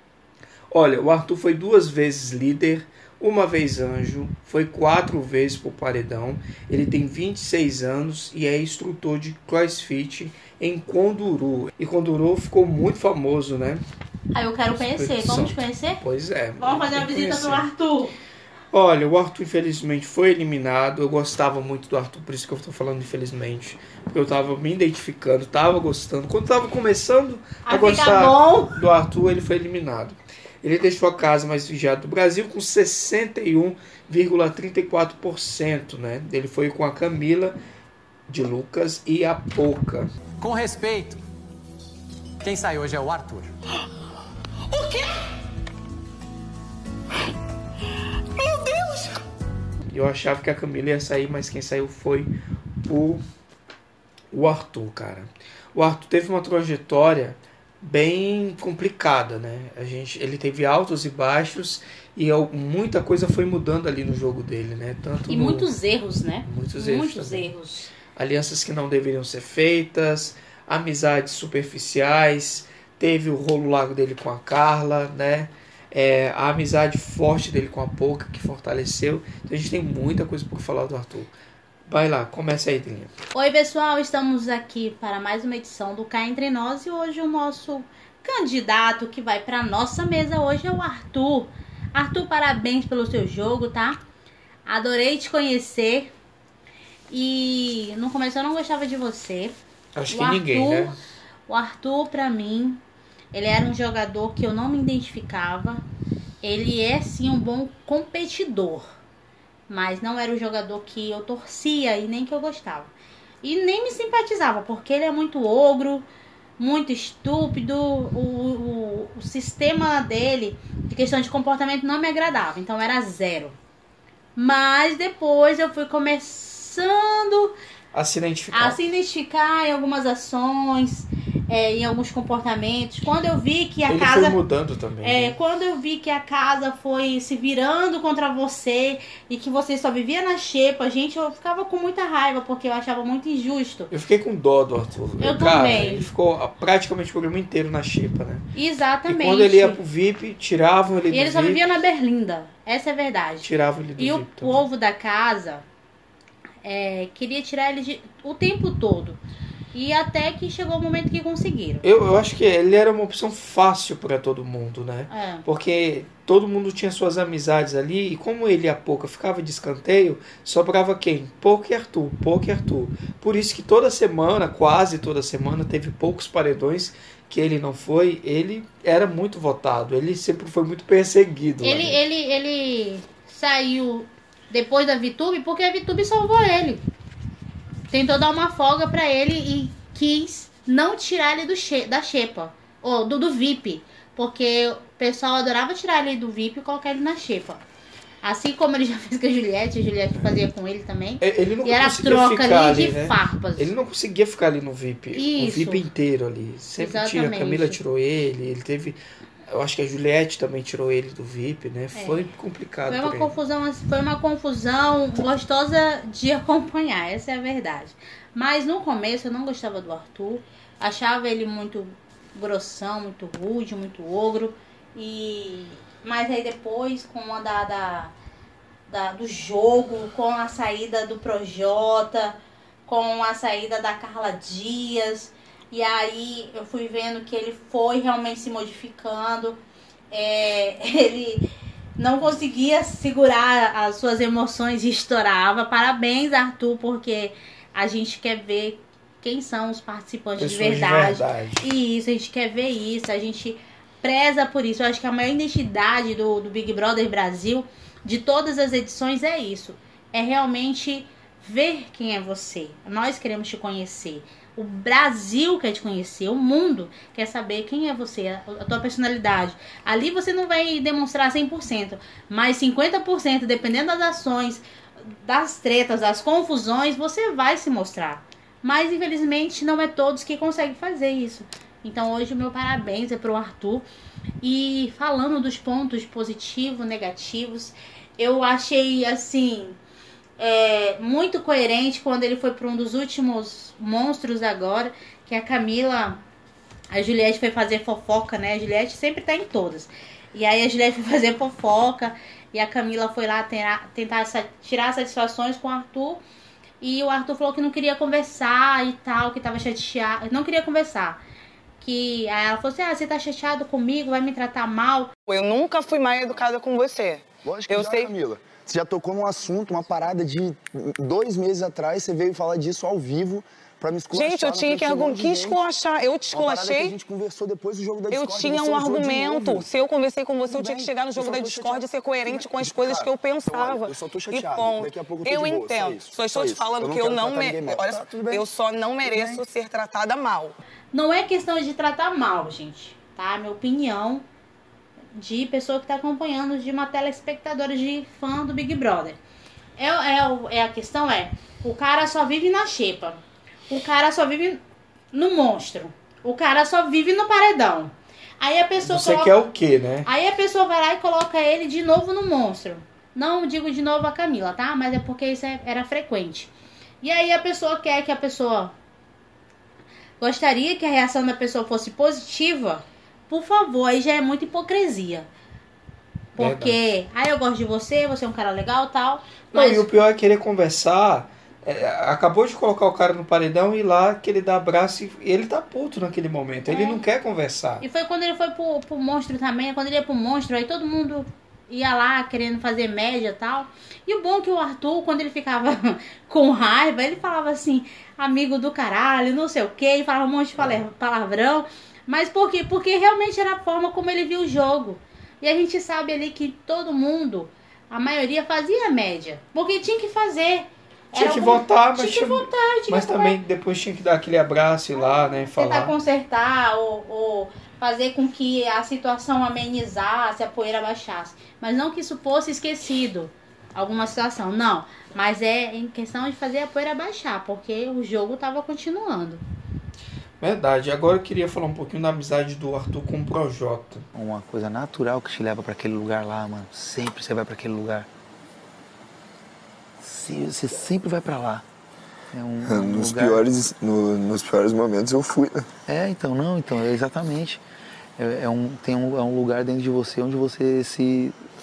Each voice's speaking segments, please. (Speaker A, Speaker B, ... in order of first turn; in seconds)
Speaker A: 0.7-13.8, 14.7-17.6, 18.7-37.6, 38.3-40.1, 49.9-52.3, 52.8-53.2, 54.3-65.7, 66.4-67.5, 68.1-81.3, 81.8-83.1, 99.9-101.0, 127.9-128.8, 133.9-135.4, 143.9-148.5, 149.1-151.6, 153.4-154.7, 161.8-182.0, 201.2-213.3, 250.4-251.7, 358.8-360.1, 376.4-376.8, 379.5-387.8, 411.1-415.9, 430.4-434.1
Speaker B: 14.3-16.0, 16.6-18.1, 27.6-28.8, 65.3-67.9, 83.3-94.0, 94.7-96.1, 97.1-99.6, 100.1-100.9, 101.5-102.8, 103.3-105.8, 106.4-108.9, 109.7-112.9, 113.4-116.0, 116.6-123.5, 124.3-127.5, 128.5-134.4, 135.0-143.9, 145.2-146.1, 148.5-149.8, 151.1-155.6, 156.6-159.2, 159.7-161.8, 165.1-165.4, 181.6-186.8, 187.9-197.6, 198.2-203.7, 205.1-205.8, 206.8-207.8, 211.9-212.2, 212.9-228.1, 228.9-239.6, 240.1-241.5, 242.0-274.6, 275.2-283.9, 284.4-289.8, 290.4-296.2, 296.9-306.2, 306.8-311.2, 311.8-315.1, 340.9-344.2, 345.1-349.2, 349.8-353.2, 353.7-354.6, 355.1-359.3, 360.1-368.7, 370.2-375.3, 376.3-379.9, 386.7-387.0, 387.8-413.4, 415.0-429.4
Speaker C: 40.4-41.2, 42.4-43.5
Speaker D: 44.7-45.1, 48.3-49.2, 315.3-318.1, 324.1-326.9, 328.1-340.5
Speaker E: 317.4-325.6, 326.3-329.7, 330.4-338.5, 339.0-339.4, 442.6-445.7
Speaker F: 434.1-438.1, 440.0-441.6, 442.3-443.4, 445.9-447.6, 448.2-451.4